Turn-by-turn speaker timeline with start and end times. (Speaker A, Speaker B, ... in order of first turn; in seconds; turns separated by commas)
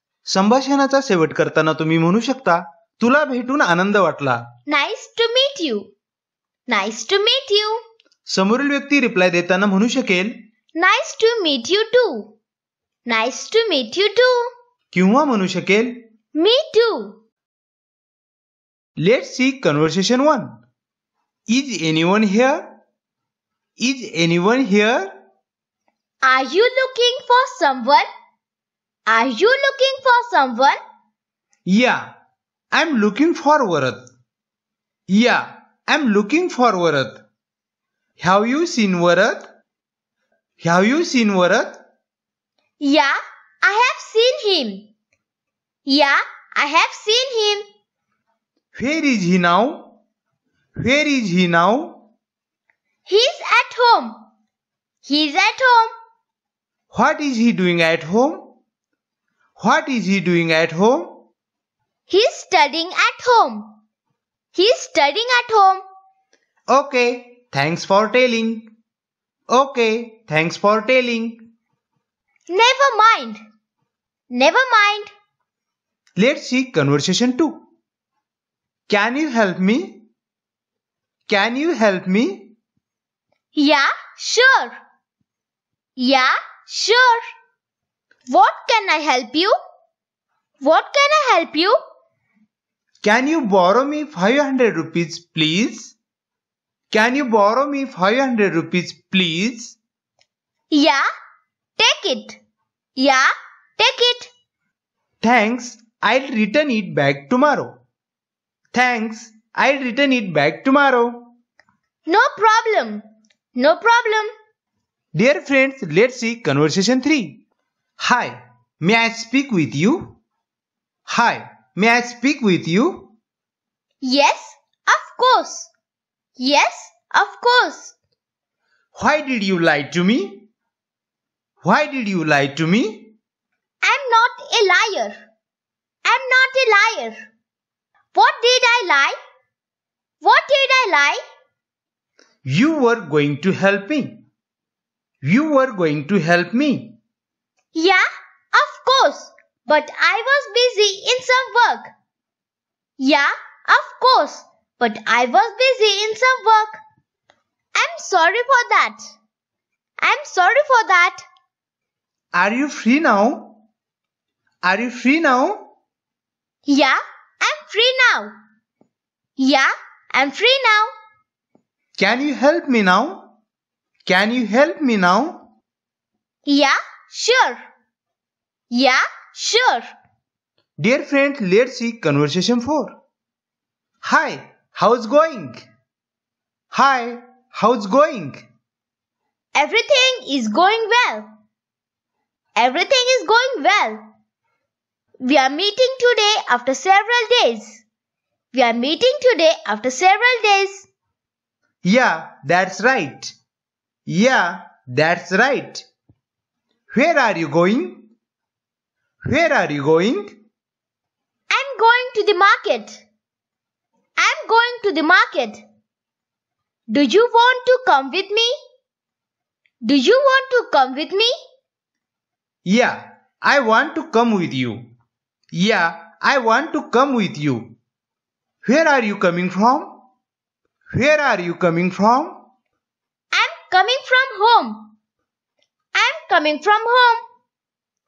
Speaker A: 0.3-4.4, Speaker B: 4.7-5.9, Speaker B: 6.7-7.8, Speaker A: 8.3-10.3, Speaker B: 10.8-12.3, Speaker B: 13.1-14.5, Speaker A: 14.9-15.9, Speaker B: 16.3-17.1, Speaker A: 19.0-20.5, Speaker A: 21.5-22.6, Speaker A: 23.8-25.1, Speaker B: 26.2-28.1, Speaker B: 29.1-30.8, Speaker A: 31.7-32.0, Speaker A: 32.7-34.1, Speaker A: 35.1-37.2, Speaker A: 38.2-39.5, Speaker A: 40.6-41.8, Speaker B: 42.8-44.8, Speaker B: 45.9-47.6, Speaker A: 48.7-49.9, Speaker A: 50.8-51.9, Speaker B: 53.1-54.2, Speaker B: 55.0-55.9, Speaker A: 56.9-58.5, Speaker A: 59.6-61.2, Speaker B: 62.1-63.7, Speaker B: 64.5-65.8, Speaker A: 66.7-68.7, Speaker A: 69.5-71.4, Speaker B: 72.5-73.4, Speaker B: 74.3-75.1, Speaker A: 76.2-77.5, Speaker A: 78.9-80.0, Speaker A: 81.3-82.5, Speaker B: 83.5-84.8, Speaker B: 86.0-87.2, Speaker B: 88.3-89.6, Speaker B: 90.6-91.8, Speaker A: 93.0-95.9, Speaker A: 96.9-99.8, Speaker B: 100.7-101.0, Speaker B: 101.8-102.4, Speaker B: 103.0-104.3, Speaker A: 105.2-107.7, Speaker A: 108.7-111.2, Speaker B: 112.1-113.0, Speaker B: 113.5-114.3, Speaker A: 115.1-117.4, Speaker A: 118.0-120.1, Speaker A: 121.1-123.1, Speaker B: 124.0-125.7, Speaker B: 126.4-127.9, Speaker A: 128.9-130.4, Speaker A: 131.6-133.1, Speaker B: 133.8-135.2, Speaker B: 136.0-137.2, Speaker B: 138.1-139.2, Speaker B: 140.2-141.2, Speaker A: 142.4-144.2, Speaker A: 145.2-146.9, Speaker B: 147.7-151.9, Speaker B: 153.0-156.8, Speaker B: 157.7-159.1, Speaker B: 160.0-161.2, Speaker A: 162.3-163.5, Speaker A: 164.6-165.6, Speaker B: 166.7-168.3, Speaker B: 169.4-170.9, Speaker A: 172.0-173.2, Speaker A: 174.1-175.3, Speaker B: 176.4-177.6, Speaker B: 178.7-179.9, Speaker A: 180.8-182.9, Speaker A: 184.0-185.6, Speaker A: 186.7-188.4, Speaker B: 189.5-191.3, Speaker B: 192.6-194.0, Speaker B: 195.2-197.8, Speaker B: 198.5-200.8, Speaker A: 201.8-203.3, Speaker A: 204.1-205.8, Speaker A: 206.9-208.0, Speaker A: 209.2-210.3, Speaker B: 211.5-213.0, Speaker B: 214.2-215.6, Speaker B: 216.9-218.5, Speaker B: 219.8-221.3, Speaker A: 222.7-224.8, Speaker A: 225.5-227.7, Speaker A: 228.6-229.9, Speaker A: 230.9-232.3, Speaker B: 233.3-234.9, Speaker B: 235.9-237.2